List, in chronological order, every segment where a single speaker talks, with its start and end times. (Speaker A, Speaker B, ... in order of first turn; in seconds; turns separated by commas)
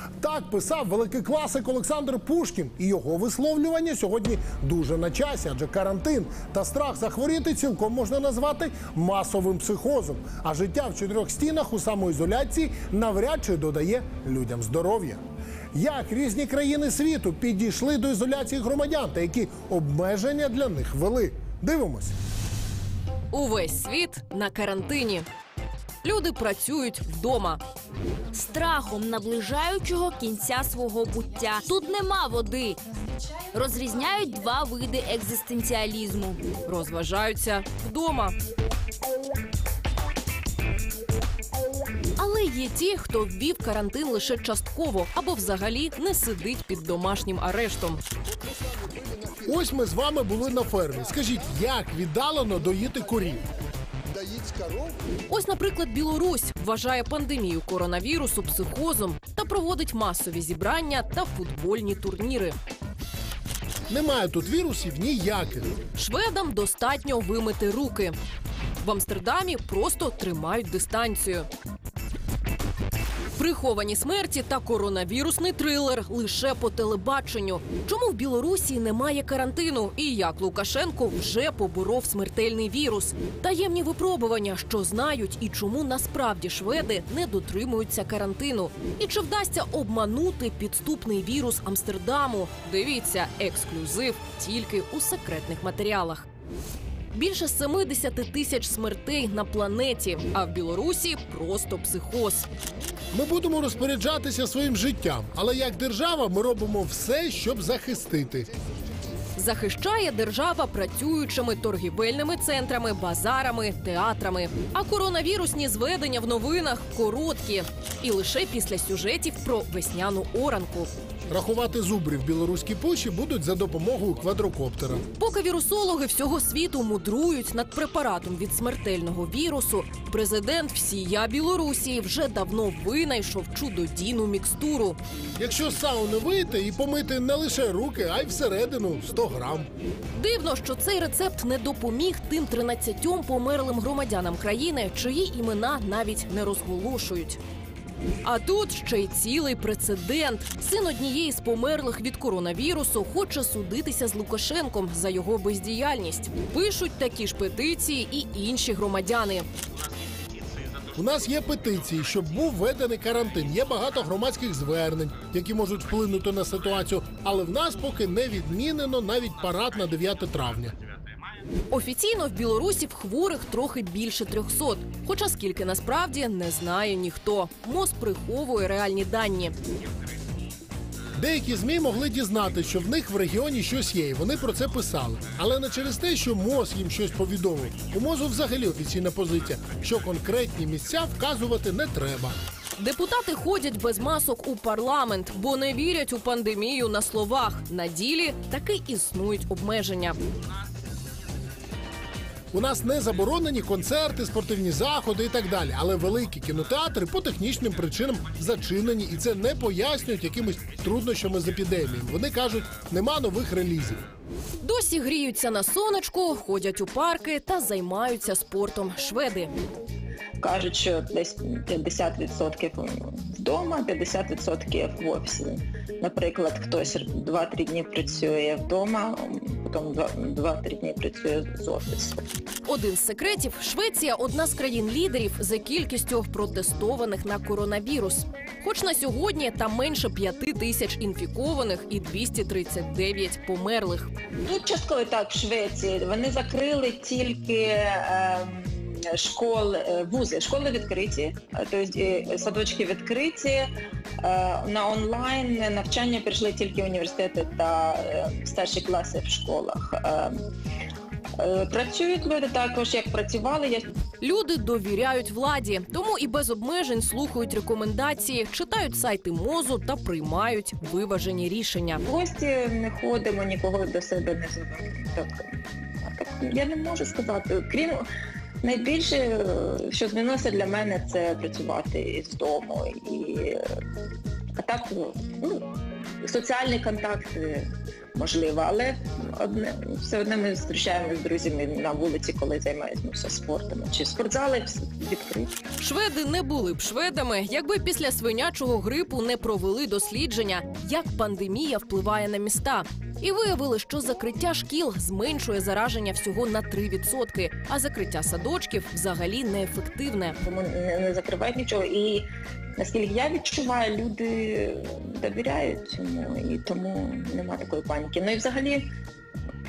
Speaker A: 0.2-15.2, Speaker A: 15.7-22.1, Speaker B: 23.3-25.3, Speaker B: 26.0-27.6, Speaker C: 28.3-32.8, Speaker C: 33.5-36.4, Speaker B: 36.7-38.4, Speaker B: 42.2-48.0, Speaker A: 48.8-53.5, Speaker A: 54.1-54.9, Speaker B: 55.3-62.5, Speaker A: 63.9-65.7, Speaker B: 66.0-68.2, Speaker B: 68.8-71.5, Speaker B: 73.4-96.3, Speaker B: 97.1-102.5, Speaker A: 103.1-108.5, Speaker B: 109.4-120.9, Speaker A: 121.3-125.0, Speaker B: 125.2-135.0, Speaker A: 135.4-139.7, Speaker B: 140.2-147.4, Speaker B: 148.2-159.5, Speaker A: 160.9-170.8, Speaker B: 171.7-179.6, Speaker A: 181.2-192.4, Speaker B: 192.8-200.2, Speaker A: 202.5-214.0, Speaker B: 214.6-219.5, Speaker D: 220.4-232.2, Speaker B: 232.7-244.1, Speaker D: 244.5-253.7, Speaker D: 254.2-260.4, Speaker D: 261.4-263.9, Speaker B: 264.2-272.0, Speaker D: 272.1-278.1, Speaker D: 278.6-283.6, Speaker D: 284.6-285.7, Speaker D: 286.2-295.5, Speaker B: 295.8-310.4, Speaker D: 310.4-312.2, Speaker D: 312.8-318.9